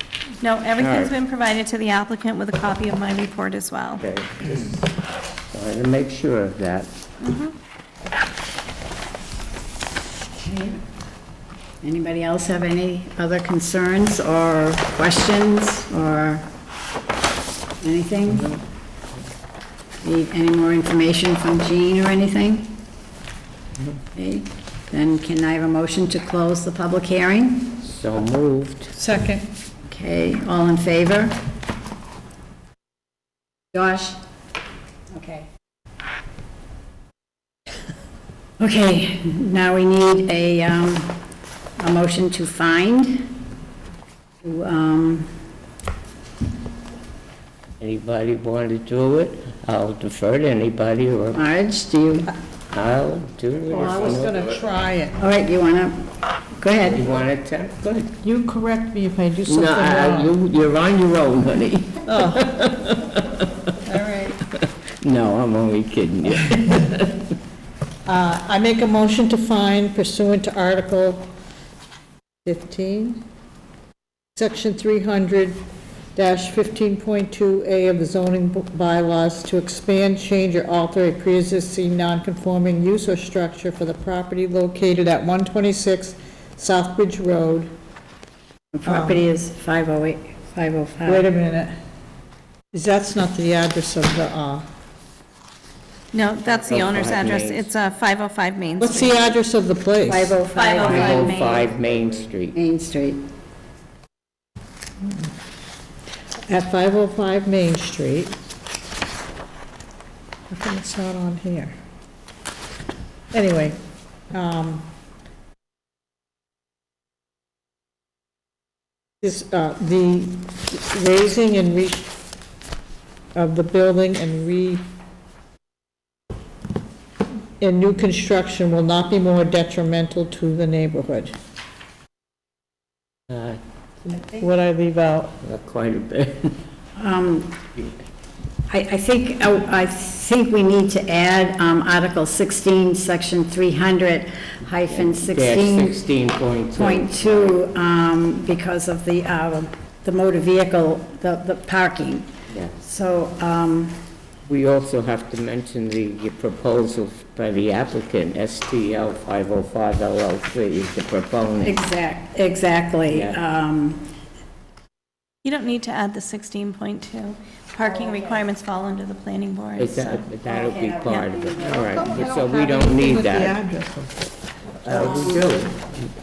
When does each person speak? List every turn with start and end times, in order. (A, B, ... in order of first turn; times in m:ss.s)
0:00.4-0:04.0 A
0:00.8-0:01.1 B
0:04.0-0:04.8 B
0:05.5-0:06.9 B
0:07.2-0:07.5 A
0:10.4-0:10.8 C
0:11.8-0:16.4 C
0:17.8-0:18.6 C
0:20.0-0:22.7 C
0:24.1-0:27.8 C
0:27.8-0:28.9 B
0:29.0-0:29.5 D
0:29.9-0:31.4 C
0:33.7-0:34.2 C
0:35.1-0:35.5 C
0:38.6-0:41.2 C
0:41.8-0:43.4 C
0:44.4-0:45.3 C
0:47.8-0:51.5 B
0:51.3-0:52.3 C
0:52.7-0:54.6 B
0:53.7-0:55.2 D
0:55.2-0:57.0 C
0:56.9-0:58.1 B
0:58.2-1:00.3 D
0:59.5-1:03.7 B
1:02.0-1:02.4 D
1:03.8-1:04.4 D
1:04.6-1:07.2 B
1:08.1-1:11.3 D
1:12.4-1:13.2 D
1:14.4-1:15.6 D
1:16.1-1:27.7 D
1:28.7-1:31.2 C
1:28.8-1:29.2 D
1:31.0-1:31.7 D
1:32.7-1:34.7 D
1:36.1-1:39.3 A
1:36.7-1:37.7 B
1:38.8-1:40.4 D
1:40.1-1:41.3 C
1:40.5-1:41.7 A
1:40.8-1:42.6 B
1:42.5-1:43.2 C
1:46.5-1:48.3 D
1:50.5-1:51.8 D
1:53.3-1:53.8 D
1:54.3-1:54.8 D
1:59.2-2:02.1 D
2:03.3-2:04.8 D
2:07.6-2:11.3 D
2:13.3-2:13.6 B
2:14.1-2:14.4 C
2:14.4-2:15.4 D
2:15.4-2:16.6 B
2:17.0-2:17.6 C
2:18.7-2:26.0 C
2:24.9-2:27.6 B
2:26.8-2:32.3 C
2:32.5-2:32.8 B
2:32.8-2:34.0 C
2:34.5-2:41.8 B
2:41.6-2:44.0 C
2:43.1-2:43.4 B
2:45.4-2:50.3 A
2:47.9-2:48.4 C
2:49.8-2:53.6 B
2:50.4-2:52.0 C
2:51.1-2:51.3 A
2:51.8-2:54.2 D
2:54.8-2:56.0 B
2:54.9-2:55.5 D